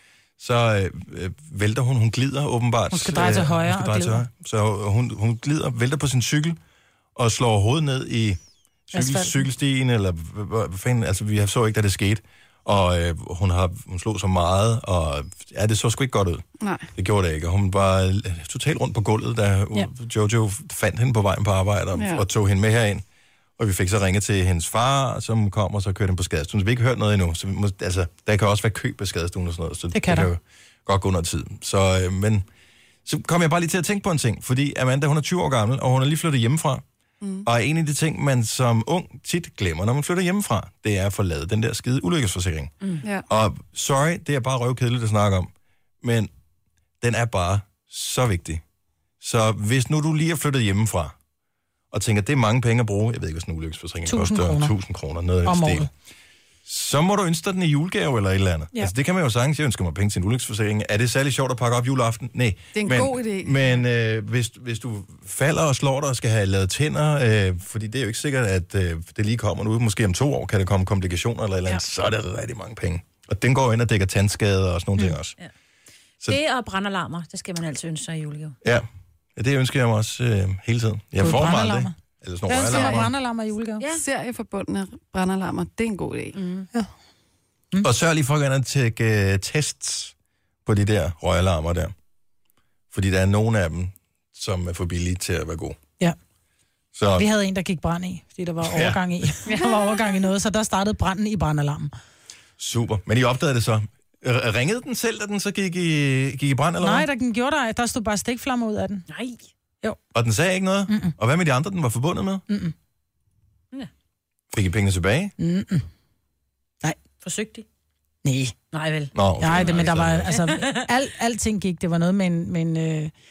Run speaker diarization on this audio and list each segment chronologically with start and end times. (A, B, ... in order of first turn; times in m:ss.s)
0:00.4-0:06.6 A
0:02.9-0:04.2 B
0:07.2-0:16.4 A
0:08.9-0:09.4 B
0:16.6-0:16.9 C
0:17.0-0:23.0 A
0:21.9-0:22.2 C
0:23.6-0:32.4 A
0:29.9-0:30.3 B
0:33.0-0:36.8 A
0:37.2-0:37.5 C
0:37.4-0:45.5 A
0:46.0-0:46.3 A
0:47.0-0:48.6 A
0:49.2-0:51.2 A
0:51.9-0:55.9 A
0:54.0-0:54.7 B
0:55.4-0:55.9 B
0:56.7-1:15.4 A
1:02.8-1:03.7 C
1:16.2-1:18.6 D
1:18.6-1:23.1 A
1:21.2-1:21.9 B
1:22.5-1:23.8 B
1:22.6-1:23.0 C
1:23.8-1:24.1 D
1:23.9-1:26.4 C
1:26.4-1:26.7 D
1:27.8-1:30.1 A
1:30.6-1:31.9 A
1:32.9-1:35.8 A
1:37.0-1:37.3 A
1:37.1-1:41.9 B
1:38.6-1:39.2 A
1:42.6-1:47.1 A
1:46.8-1:49.0 B
1:49.1-1:49.4 D
1:50.1-1:52.4 A
1:50.9-1:51.1 B
1:52.5-1:52.7 B
1:54.5-1:55.4 A
1:55.4-1:55.9 B
1:57.2-1:57.7 D
1:58.2-1:58.6 B
1:58.7-2:00.9 D
1:59.1-2:00.3 A
1:59.4-2:03.1 B